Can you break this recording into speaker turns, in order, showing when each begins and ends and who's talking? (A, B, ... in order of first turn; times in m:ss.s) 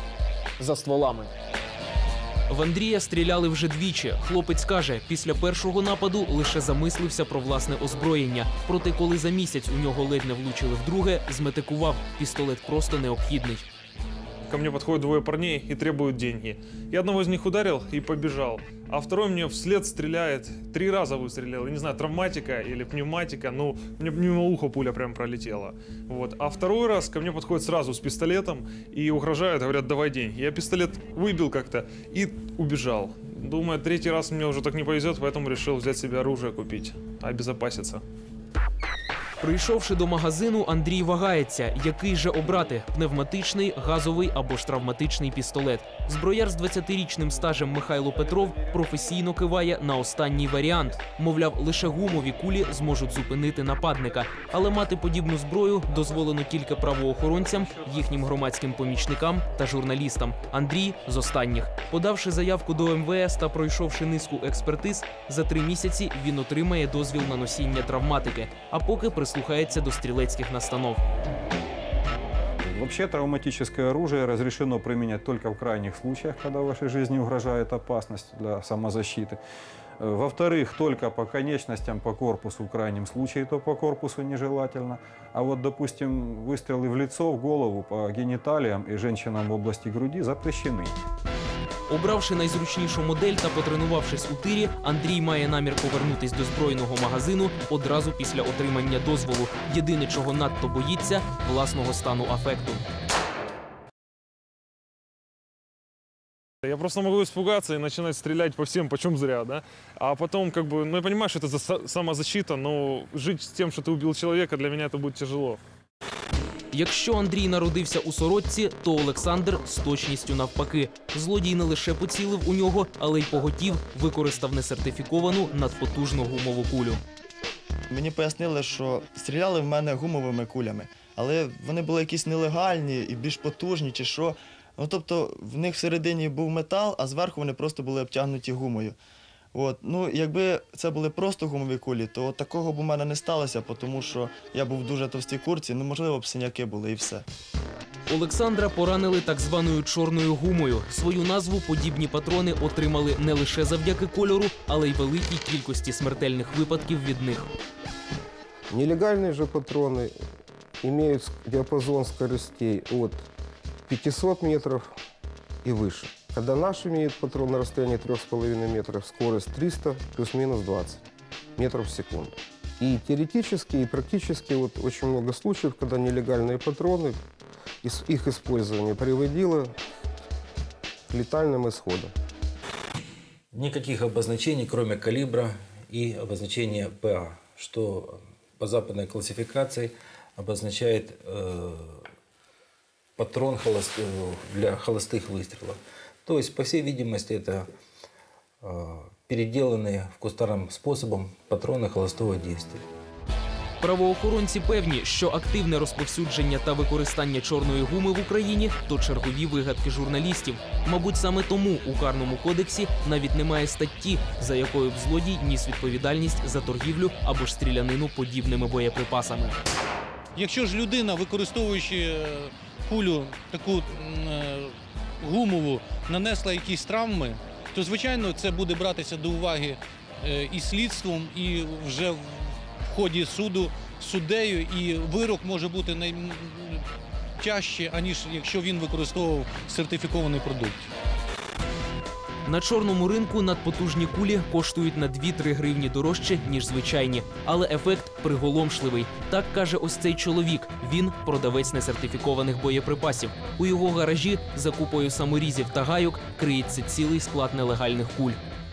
0:00.6-0:01.3 A
0:02.5-0:13.6 A
0:14.5-0:38.0 B
0:39.4-1:11.0 A
1:12.6-1:19.4 C
1:20.0-1:31.0 C
1:31.9-1:42.8 A
1:46.6-1:55.6 B
1:56.7-2:07.0 A
2:07.9-2:19.0 D
2:19.5-2:27.2 D
2:28.1-2:37.5 A
2:38.7-2:40.1 E
2:40.8-2:43.3 E
2:43.9-2:44.9 E
2:45.6-2:51.0 E
2:51.6-2:57.2 E
2:57.8-2:59.7 E
3:01.1-3:02.1 E
3:03.5-3:12.0 F
3:13.2-3:17.7 F
3:18.6-3:22.8 F
3:23.8-3:39.6 A
3:40.3-3:56.8 G
3:57.4-4:00.9 G
4:02.4-4:18.4 A